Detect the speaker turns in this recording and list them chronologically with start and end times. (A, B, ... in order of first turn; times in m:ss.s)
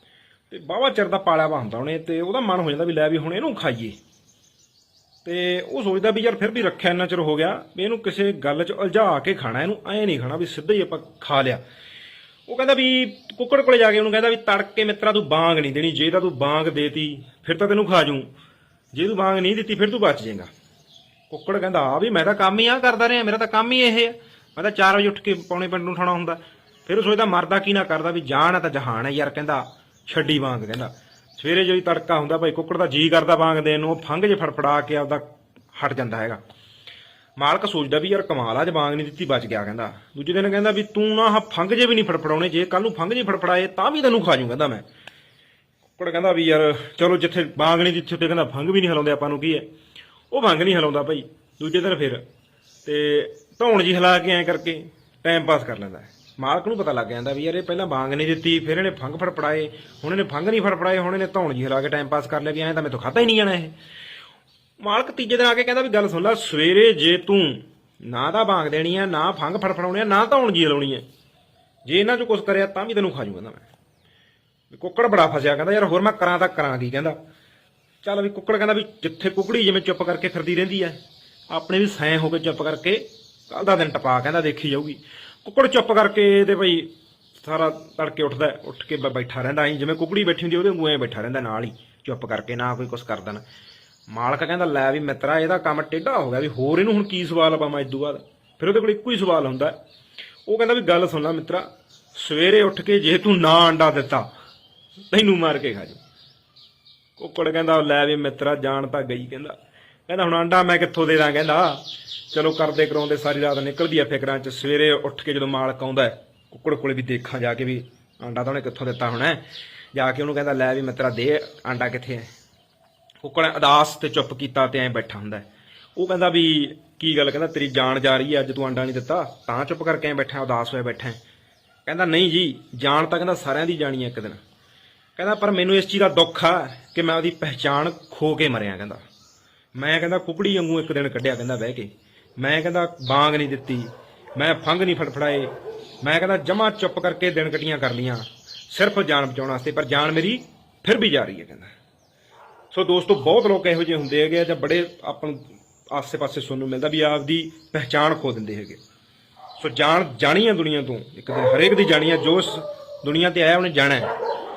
0:00.5-0:04.0 A
0:05.2-0:11.6 A
0:12.5-0:18.3 A
0:18.9-0:20.5 A
0:21.3-0:36.4 A
0:37.4-0:44.8 A
0:46.0-0:49.6 A
0:50.3-0:52.2 A
0:52.8-1:03.7 A
1:04.8-1:11.0 A
1:11.8-1:13.6 A
1:14.7-1:17.2 A
1:18.0-1:21.0 A
1:21.5-1:26.9 A
1:27.4-1:33.4 A
1:34.1-1:39.7 A
1:40.4-1:44.3 A
1:45.1-1:46.0 A
1:47.2-1:49.6 A
1:50.1-1:59.4 A
1:59.9-2:02.3 A
2:03.2-2:11.2 A
2:11.8-2:14.4 A
2:15.2-2:19.0 A
2:19.7-2:31.7 A
2:32.7-2:38.8 A
2:39.6-2:44.1 A